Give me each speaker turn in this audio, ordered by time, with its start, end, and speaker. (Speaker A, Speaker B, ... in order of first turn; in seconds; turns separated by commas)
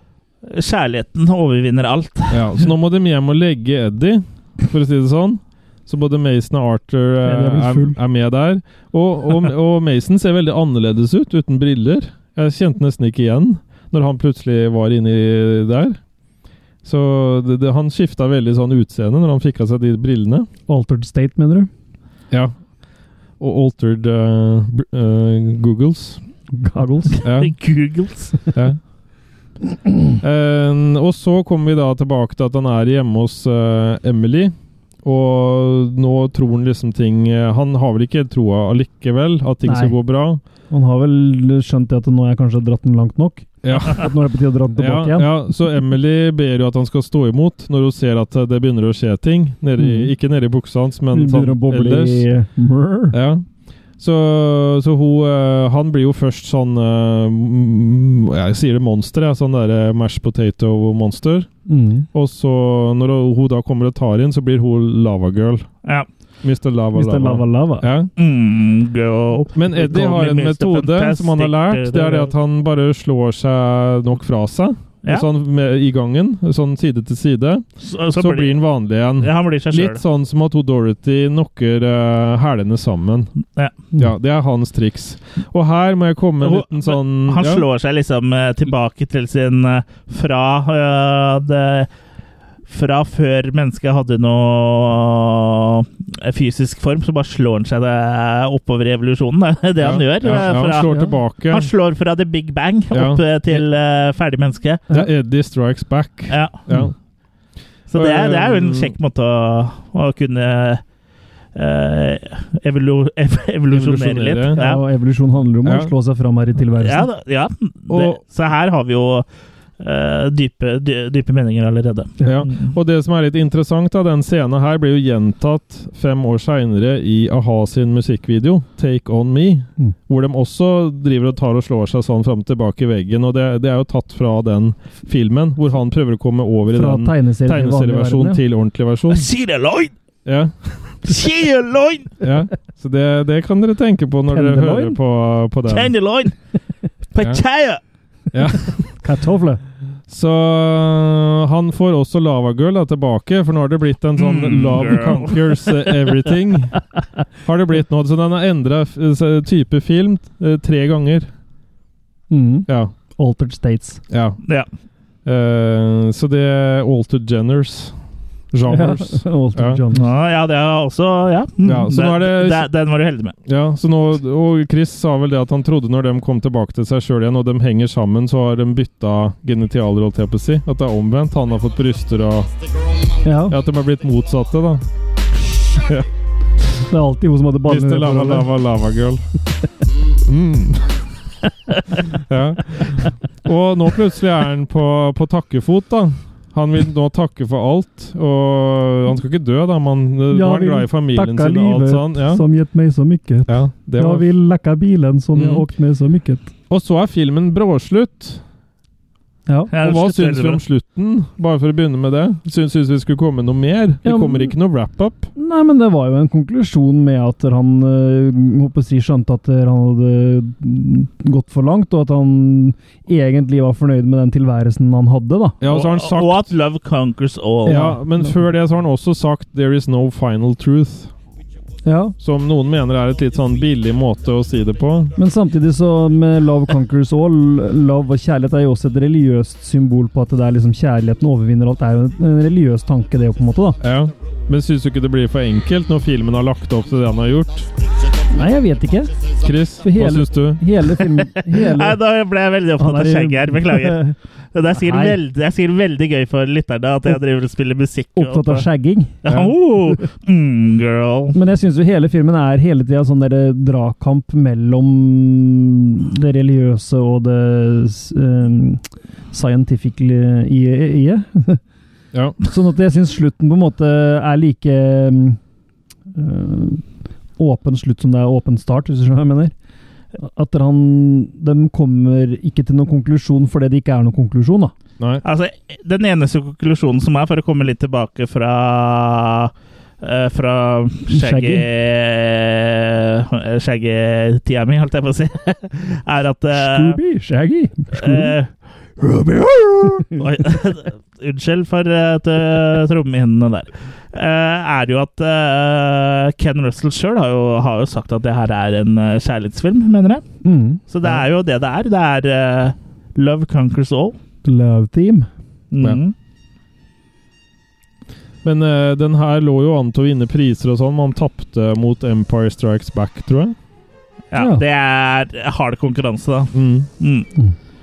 Speaker A: 0.4-2.4, Speaker B: 2.3-16.0, Speaker C: 7.2-8.0, Speaker B: 16.8-20.5, Speaker C: 20.7-21.7, Speaker B: 22.3-22.6, Speaker B: 23.4-26.2, Speaker C: 26.5-27.2, Speaker A: 27.2-28.4, Speaker B: 27.2-27.6, Speaker B: 28.5-28.8, Speaker B: 30.2-40.4, Speaker C: 39.6-40.0, Speaker C: 40.7-45.5, Speaker B: 43.6-44.1, Speaker B: 44.8-52.3, Speaker C: 49.8-50.1, Speaker C: 51.1-53.2, Speaker B: 53.1-53.5, Speaker B: 54.0-65.7, Speaker C: 61.7-62.1, Speaker B: 66.4-68.1, Speaker C: 66.9-67.9, Speaker A: 68.2-72.3, Speaker B: 69.5-83.3, Speaker A: 77.8-78.6, Speaker A: 79.2-80.0, Speaker B: 84.0-87.7, Speaker A: 86.4-91.9, Speaker A: 92.7-104.8, Speaker B: 99.8-101.7, Speaker C: 100.9-101.2, Speaker B: 102.9-103.6, Speaker B: 104.9-107.0, Speaker A: 106.3-106.6, Speaker A: 107.9-110.8, Speaker B: 107.9-109.0, Speaker A: 111.5-114.8, Speaker B: 113.7-114.6, Speaker C: 114.6-117.1, Speaker B: 115.6-115.9, Speaker A: 116.8-119.3, Speaker B: 117.9-118.2, Speaker A: 119.8-122.7, Speaker B: 122.2-139.3, Speaker C: 136.7-138.4, Speaker A: 139.1-139.9, Speaker B: 140.2-141.0, Speaker A: 141.1-142.1, Speaker B: 142.2-146.0, Speaker C: 144.3-145.0, Speaker A: 145.7-146.4, Speaker A: 147.1-147.8, Speaker B: 147.2-147.4, Speaker B: 148.3-149.0, Speaker C: 149.0-149.6, Speaker B: 150.1-156.8, Speaker A: 154.2-156.0, Speaker B: 157.4-161.3, Speaker C: 162.3-164.0, Speaker B: 162.7-162.9, Speaker B: 164.1-164.4, Speaker B: 165.2-168.0, Speaker B: 168.5-169.8, Speaker C: 168.7-170.1, Speaker A: 169.9-173.3, Speaker B: 171.6-172.7, Speaker B: 173.5-182.5, Speaker C: 183.2-183.6, Speaker B: 183.5-184.9, Speaker B: 185.8-186.1, Speaker C: 186.9-188.5, Speaker B: 187.7-189.2, Speaker B: 190.2-191.0, Speaker B: 192.1-202.4, Speaker C: 200.3-206.5, Speaker B: 203.5-204.3, Speaker B: 205.3-205.7, Speaker B: 206.7-208.4, Speaker A: 209.7-210.6, Speaker B: 209.8-215.3, Speaker C: 214.1-214.6, Speaker C: 215.4-225.6, Speaker B: 225.6-226.5, Speaker A: 225.7-228.0, Speaker C: 227.7-228.4, Speaker B: 227.7-231.1, Speaker C: 231.8-232.2, Speaker B: 232.2-235.2, Speaker C: 235.2-243.8, Speaker B: 243.8-247.7, Speaker C: 248.3-249.2, Speaker B: 249.4-250.7, Speaker C: 249.8-252.0, Speaker A: 251.1-258.7, Speaker C: 252.8-254.2, Speaker C: 254.8-255.2, Speaker C: 258.1-259.2, Speaker A: 259.2-261.4, Speaker B: 259.3-259.6, Speaker C: 261.3-271.6, Speaker C: 272.4-275.4, Speaker C: 276.1-276.8, Speaker C: 277.4-279.5, Speaker C: 280.2-284.7, Speaker A: 285.2-297.0, Speaker C: 291.1-291.7, Speaker C: 296.5-298.3, Speaker A: 297.9-310.2, Speaker C: 310.4-310.8, Speaker A: 310.9-314.2, Speaker C: 314.4-315.3, Speaker A: 315.7-316.1, Speaker B: 318.4-323.6, Speaker A: 324.3-327.3, Speaker C: 324.4-324.6, Speaker B: 326.5-326.9